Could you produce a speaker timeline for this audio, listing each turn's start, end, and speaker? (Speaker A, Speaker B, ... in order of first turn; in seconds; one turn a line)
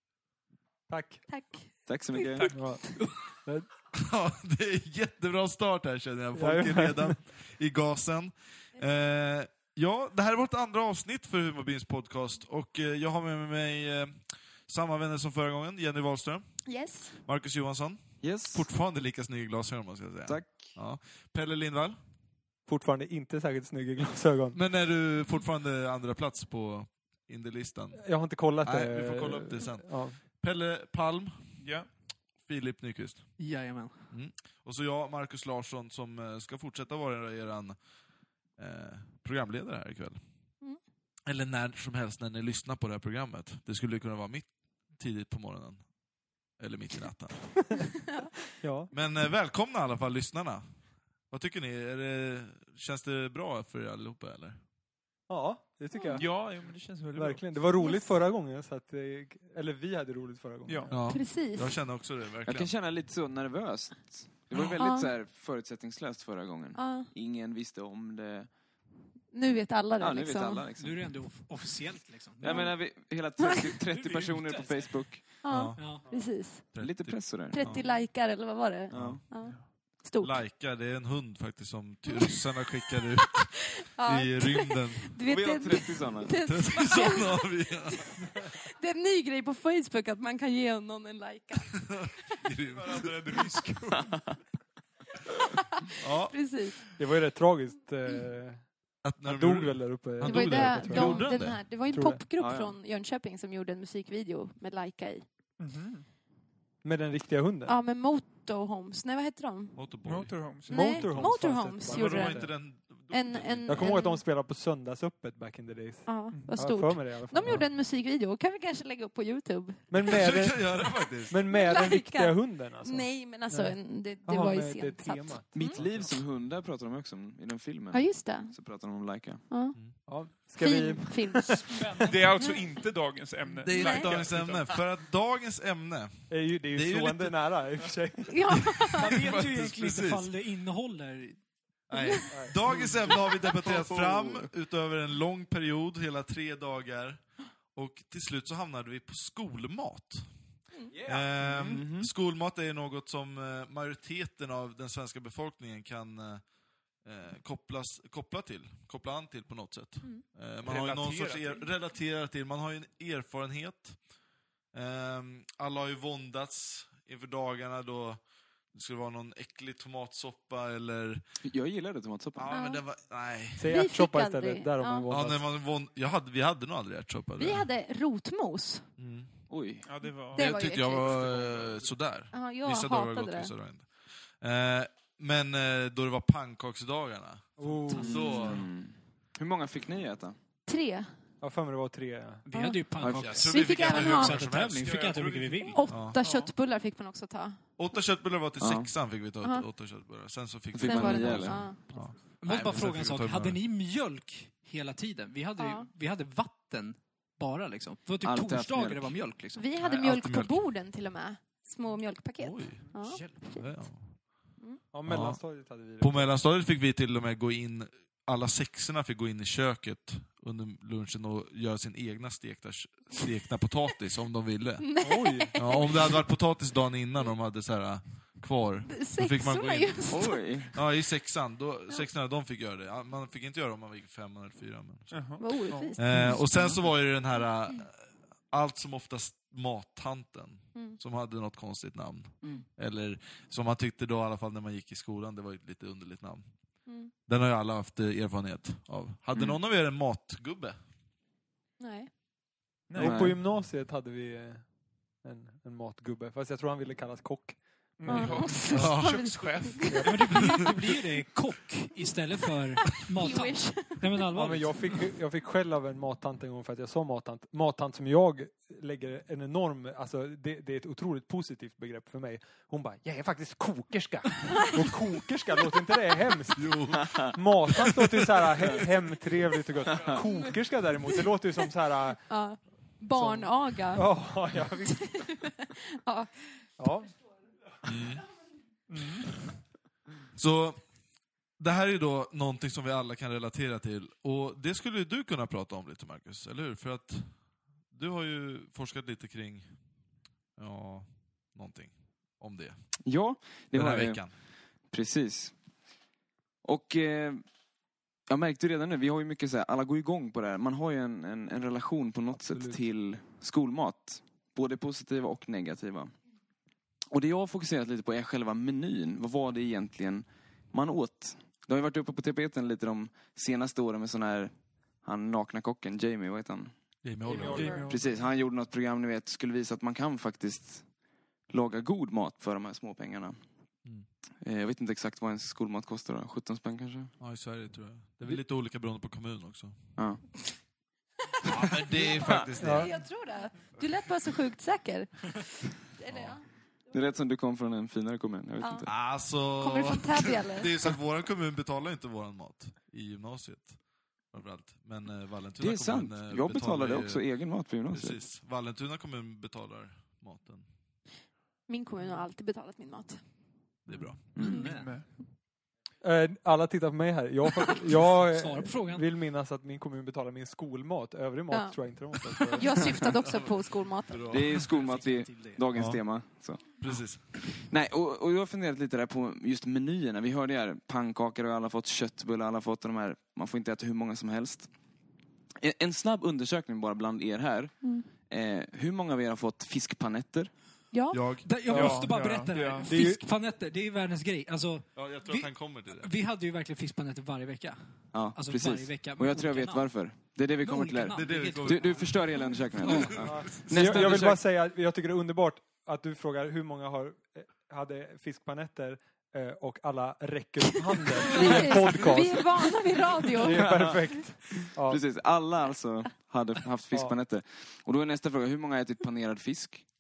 Speaker A: 0.9-1.2
Speaker B: 1.3-2.9
Speaker C: 1.9-2.5
Speaker A: 2.5-3.7
Speaker D: 3.9-16.4
Speaker A: 6.4-7.2
Speaker B: 16.7-17.1
Speaker D: 17.2-22.0
Speaker C: 18.2-18.7
Speaker C: 20.3-20.8
Speaker A: 22.7-24.6
Speaker D: 24.5-28.1
Speaker A: 28.0-30.2
Speaker D: 28.6-31.3
Speaker E: 31.6-31.9
Speaker D: 32.4-33.3
Speaker F: 33.4-34.1
Speaker D: 34.1-37.8
Speaker D: 38.6-40.2
Speaker D: 41.3-45.8
Speaker D: 46.6-47.6
Speaker A: 48.6-48.9
Speaker D: 48.9-50.6
Speaker D: 51.3-54.6
Speaker A: 55.3-56.3
Speaker B: 55.9-56.2
Speaker E: 56.2-57.4
Speaker A: 57.1-60.9
Speaker B: 57.8-58.1
Speaker E: 60.7-60.9
Speaker D: 60.9-62.7
Speaker B: 61.1-61.7
Speaker C: 62.5-68.5
Speaker B: 64.7-65.1
Speaker B: 66.8-67.1
Speaker B: 69.3-70.6
Speaker C: 70.0-71.1
Speaker F: 70.8-72.7
Speaker C: 72.4-75.2
Speaker B: 72.5-72.7
Speaker F: 73.9-75.0
Speaker B: 75.4-76.7
Speaker D: 75.5-75.9
Speaker F: 75.8-76.1
Speaker D: 76.7-77.8
Speaker C: 76.8-77.6
Speaker B: 77.5-80.4
Speaker D: 78.9-79.3
Speaker C: 78.9-79.2
Speaker D: 80.2-85.2
Speaker B: 82.1-92.4
Speaker C: 85.3-86.4
Speaker D: 86.4-88.2
Speaker D: 91.7-93.1
Speaker E: 92.8-94.4
Speaker B: 95.5-96.8
Speaker D: 96.0-96.5
Speaker A: 97.0-98.7
Speaker D: 99.0-101.7
Speaker A: 99.2-101.4
Speaker B: 100.2-105.2
Speaker A: 101.9-102.2
Speaker C: 102.4-102.8
Speaker E: 105.6-106.1
Speaker A: 106.8-107.8
Speaker B: 107.7-109.8
Speaker D: 109.8-111.2
Speaker E: 110.0-111.1
Speaker B: 110.7-114.2
Speaker A: 110.7-112.6
Speaker D: 111.8-114.0
Speaker A: 113.7-117.7
Speaker B: 116.1-119.9
Speaker E: 116.3-116.6
Speaker A: 119.9-126.2
Speaker D: 120.0-121.4
Speaker B: 121.5-125.8
Speaker C: 125.5-129.4
Speaker B: 127.9-128.6
Speaker B: 129.5-129.8
Speaker D: 129.7-130.0
Speaker A: 130.1-131.9
Speaker B: 130.4-131.8
Speaker F: 131.7-132.2
Speaker E: 132.0-134.8
Speaker B: 132.3-132.6
Speaker D: 133.6-137.4
Speaker B: 133.8-134.1
Speaker A: 136.3-138.7
Speaker B: 138.3-139.2
Speaker D: 138.5-140.3
Speaker F: 139.0-141.4
Speaker D: 141.9-147.2
Speaker B: 141.9-142.3
Speaker A: 142.3-143.1
Speaker C: 143.5-144.5
Speaker D: 147.7-150.3
Speaker D: 151.0-156.4
Speaker E: 151.1-151.8
Speaker C: 151.7-152.1
Speaker D: 157.0-164.0
Speaker E: 160.6-161.7
Speaker D: 164.7-168.2
Speaker D: 168.7-171.2
Speaker C: 171.4-172.5
Speaker D: 172.4-173.7
Speaker B: 172.5-172.8
Speaker A: 173.6-175.5
Speaker B: 173.7-175.1
Speaker D: 175.1-177.7
Speaker B: 177.4-178.9
Speaker D: 179.0-179.3
Speaker C: 179.5-179.8
Speaker E: 179.8-181.9
Speaker B: 180.3-181.2
Speaker D: 180.3-188.7
Speaker B: 182.3-183.5
Speaker A: 187.6-188.3
Speaker F: 187.8-188.6
Speaker C: 188.0-190.4
Speaker B: 190.7-191.1
Speaker A: 191.4-192.4
Speaker F: 192.4-196.0
Speaker B: 192.5-192.8
Speaker C: 193.0-193.3
Speaker D: 193.0-196.2
Speaker B: 193.4-194.4
Speaker E: 194.8-196.5
Speaker B: 195.7-197.6
Speaker D: 197.8-203.6
Speaker C: 198.6-198.9
Speaker B: 199.4-199.7
Speaker C: 200.7-201.7
Speaker B: 200.8-201.9
Speaker F: 202.4-209.7
Speaker B: 205.6-205.9
Speaker C: 208.2-209.1
Speaker B: 209.6-213.7
Speaker D: 209.8-210.7
Speaker D: 212.4-212.9
Speaker F: 212.9-213.6
Speaker D: 213.5-214.3
Speaker A: 214.9-216.3
Speaker D: 215.1-215.4
Speaker D: 216.0-224.9
Speaker B: 224.8-226.2
Speaker A: 225.0-225.5
Speaker D: 225.6-230.2
Speaker B: 228.9-230.4
Speaker C: 230.1-230.7
Speaker D: 230.7-235.3
Speaker E: 235.1-236.4
Speaker B: 235.4-236.4
Speaker D: 235.9-238.0
Speaker D: 238.5-246.4
Speaker B: 246.9-247.1
Speaker D: 247.3-250.8
Speaker B: 251.8-252.1
Speaker E: 252.9-253.2
Speaker A: 253.0-254.7
Speaker C: 253.0-253.4
Speaker A: 255.2-258.9
Speaker E: 258.0-260.2
Speaker B: 258.1-259.0
Speaker D: 258.6-259.6
Speaker B: 259.6-260.1
Speaker A: 259.9-260.3
Speaker F: 260.0-264.9
Speaker B: 262.8-264.3
Speaker A: 264.3-282.2
Speaker D: 276.6-278.4
Speaker C: 276.9-277.3
Speaker B: 282.3-284.1
Speaker A: 283.1-285.2
Speaker B: 284.8-286.3
Speaker A: 286.8-287.1
Speaker D: 287.8-288.3
Speaker E: 288.9-289.3
Speaker D: 290.3-290.8
Speaker D: 291.6-297.3
Speaker D: 297.9-299.7
Speaker D: 300.6-302.8
Speaker C: 303.0-304.2
Speaker D: 303.7-304.3
Speaker C: 304.9-305.6
Speaker C: 306.6-307.4
Speaker C: 308.3-316.1
Speaker A: 312.4-312.8
Speaker C: 317.1-326.7
Speaker D: 327.0-327.9
Speaker B: 327.2-327.9
Speaker A: 327.4-328.0
Speaker E: 327.5-327.9
Speaker C: 327.9-330.8
Speaker C: 331.5-333.4
Speaker C: 334.4-337.1
Speaker D: 337.2-339.8
Speaker C: 340.0-340.2
Speaker D: 341.4-343.0
Speaker B: 341.9-346.5
Speaker A: 342.6-342.9
Speaker D: 346.1-346.4
Speaker C: 346.9-348.9
Speaker B: 348.6-348.9
Speaker D: 348.9-353.8
Speaker B: 349.6-350.7
Speaker D: 354.3-357.3
Speaker C: 355.6-358.2
Speaker D: 357.9-360.7
Speaker B: 361.7-363.2
Speaker D: 363.9-364.4
Speaker C: 364.3-364.6
Speaker B: 364.4-364.7
Speaker E: 364.4-365.1
Speaker F: 364.4-364.9
Speaker A: 366.0-372.9
Speaker F: 368.0-369.1
Speaker B: 371.5-371.8
Speaker B: 372.3-374.4
Speaker D: 374.1-374.6
Speaker C: 374.3-376.6
Speaker F: 374.5-375.7
Speaker D: 375.7-376.0
Speaker D: 376.8-377.3
Speaker C: 377.5-384.7
Speaker C: 385.6-390.5
Speaker B: 390.9-391.2
Speaker D: 391.1-391.5
Speaker F: 391.4-397.8
Speaker E: 391.7-392.9
Speaker A: 391.7-392.1
Speaker A: 392.8-393.2
Speaker D: 394.9-396.1
Speaker C: 398.1-404.4
Speaker F: 398.3-399.9
Speaker F: 400.6-402.1
Speaker D: 401.1-404.1
Speaker F: 402.8-403.2
Speaker A: 403.2-412.7
Speaker B: 410.7-413.9
Speaker A: 413.3-415.0
Speaker C: 413.5-419.9